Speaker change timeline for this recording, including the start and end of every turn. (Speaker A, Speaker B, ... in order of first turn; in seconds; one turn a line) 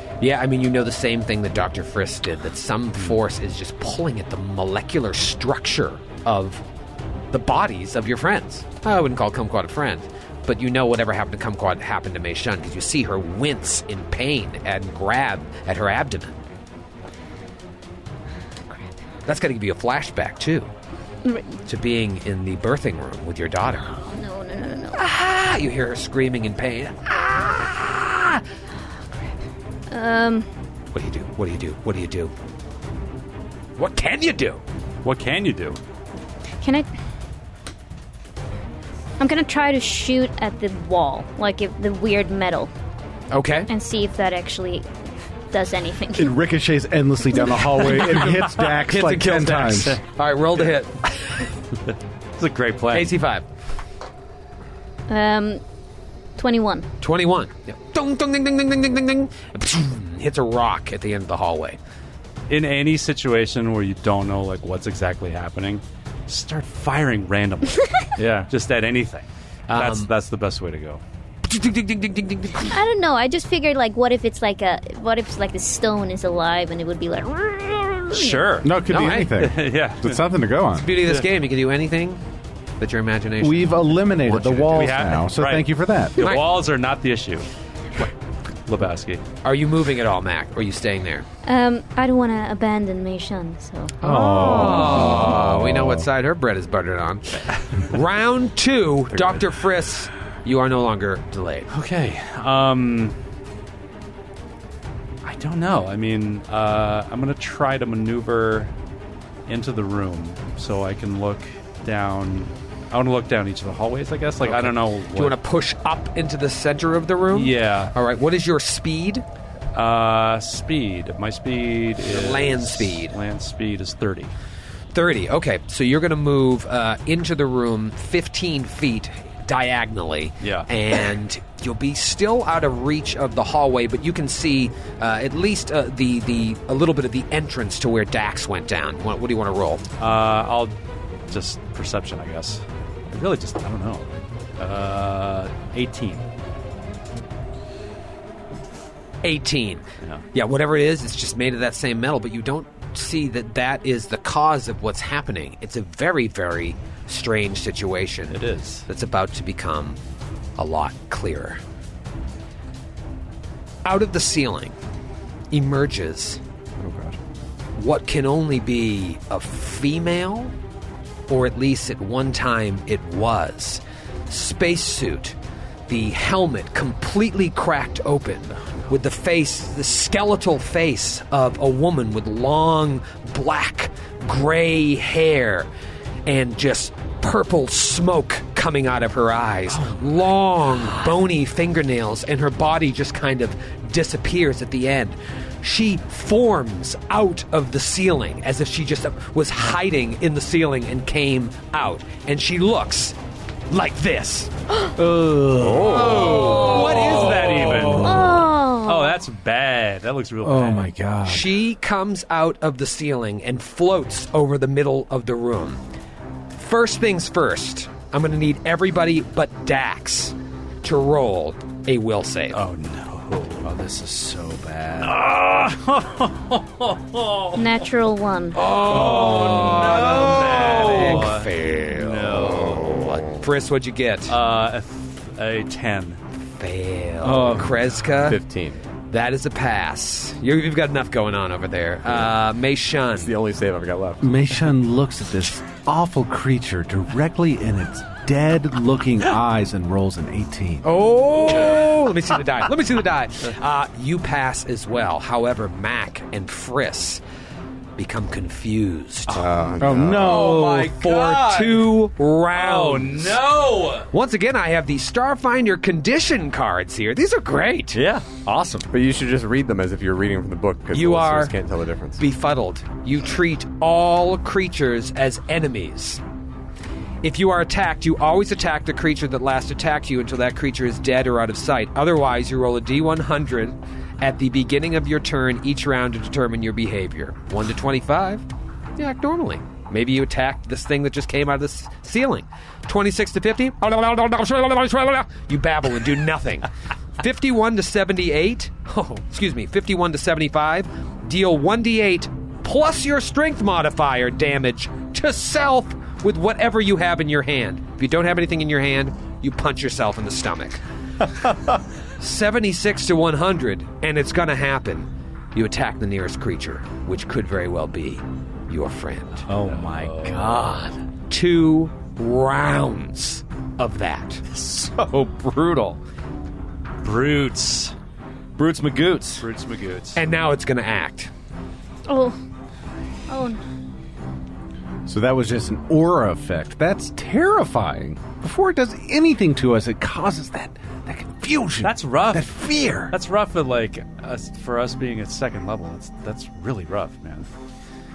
Speaker A: 0.2-6.6
Speaker A: 7.3-16.3
Speaker A: 19.2-20.7
Speaker B: 21.2-21.6
Speaker A: 21.6-23.9
Speaker B: 23.9-25.0
Speaker A: 24.9-28.4
Speaker B: 29.9-30.5
Speaker A: 30.9-32.3
Speaker A: 33.8-34.6
Speaker C: 35.0-35.8
Speaker B: 36.6-36.9
Speaker B: 39.2-42.7
Speaker A: 43.3-43.7
Speaker B: 43.7-44.9
Speaker B: 45.5-46.4
Speaker D: 46.1-50.0
Speaker B: 47.4-48.1
Speaker C: 48.3-48.7
Speaker A: 48.5-51.5
Speaker C: 52.4-53.2
Speaker A: 52.9-53.4
Speaker B: 55.1-55.6
Speaker B: 56.4-56.9
Speaker A: 57.0-61.8
Speaker C: 62.5-71.0
Speaker E: 68.2-68.5
Speaker A: 69.7-70.1
Speaker A: 71.4-72.7
Speaker B: 72.7-78.6
Speaker C: 78.1-78.7
Speaker D: 78.6-81.0
Speaker A: 78.8-79.3
Speaker C: 79.3-80.2
Speaker A: 80.8-82.2
Speaker A: 82.8-85.0
Speaker D: 83.4-86.3
Speaker C: 84.7-87.5
Speaker A: 86.2-86.5
Speaker C: 88.7-89.2
Speaker A: 89.4-91.2
Speaker B: 91.4-95.2
Speaker D: 94.0-96.0
Speaker A: 94.0-101.7
Speaker C: 101.7-103.2
Speaker C: 105.2-108.7
Speaker C: 109.5-115.4
Speaker A: 114.4-119.2
Speaker C: 117.3-117.9
Speaker C: 119.7-124.3
Speaker A: 122.0-123.2
Speaker A: 124.9-139.8
Speaker C: 130.4-130.7
Speaker C: 140.0-140.8
Speaker C: 141.3-146.2
Speaker A: 149.2-160.0
Speaker C: 158.3-158.8
Speaker A: 160.6-161.6
Speaker A: 163.8-164.7
Speaker A: 165.5-166.4
Speaker F: 166.8-167.2
Speaker A: 167.8-170.5
Speaker A: 171.3-175.4
Speaker A: 175.9-185.7
Speaker A: 186.2-203.2
Speaker A: 203.7-204.5
Speaker D: 204.9-206.7
Speaker F: 205.6-206.4
Speaker A: 205.8-207.8
Speaker C: 206.0-210.9
Speaker D: 207.4-208.4
Speaker B: 207.9-209.2
Speaker D: 210.4-211.6
Speaker A: 211.2-215.8
Speaker A: 216.5-222.6
Speaker C: 222.5-227.6
Speaker E: 223.9-225.4
Speaker B: 227.5-228.7
Speaker A: 228.5-234.3
Speaker C: 228.9-233.2
Speaker E: 228.9-231.3
Speaker C: 234.3-236.2
Speaker A: 236.5-238.4
Speaker E: 237.2-237.8
Speaker F: 238.2-238.8
Speaker A: 239.1-243.3
Speaker F: 243.2-244.3
Speaker D: 244.2-251.0
Speaker A: 250.8-257.2
Speaker A: 258.0-259.4
Speaker F: 259.3-260.3
Speaker D: 259.8-260.9
Speaker E: 259.9-261.9
Speaker A: 260.3-263.4
Speaker E: 262.5-264.1
Speaker A: 264.1-268.0
Speaker E: 267.9-268.9
Speaker F: 268.9-272.2
Speaker A: 270.9-271.5
Speaker A: 272.2-276.2
Speaker A: 277.2-288.4
Speaker A: 289.0-296.7
Speaker A: 297.2-310.8
Speaker A: 312.2-319.4
Speaker E: 319.5-320.9
Speaker C: 319.5-320.8
Speaker A: 321.3-324.4
Speaker E: 324.5-326.0
Speaker C: 327.0-327.9
Speaker E: 328.6-329.4
Speaker C: 329.4-330.2
Speaker A: 330.1-331.3
Speaker B: 332.1-332.4
Speaker B: 333.3-333.6
Speaker D: 335.1-343.1
Speaker C: 341.8-342.5
Speaker C: 343.1-347.5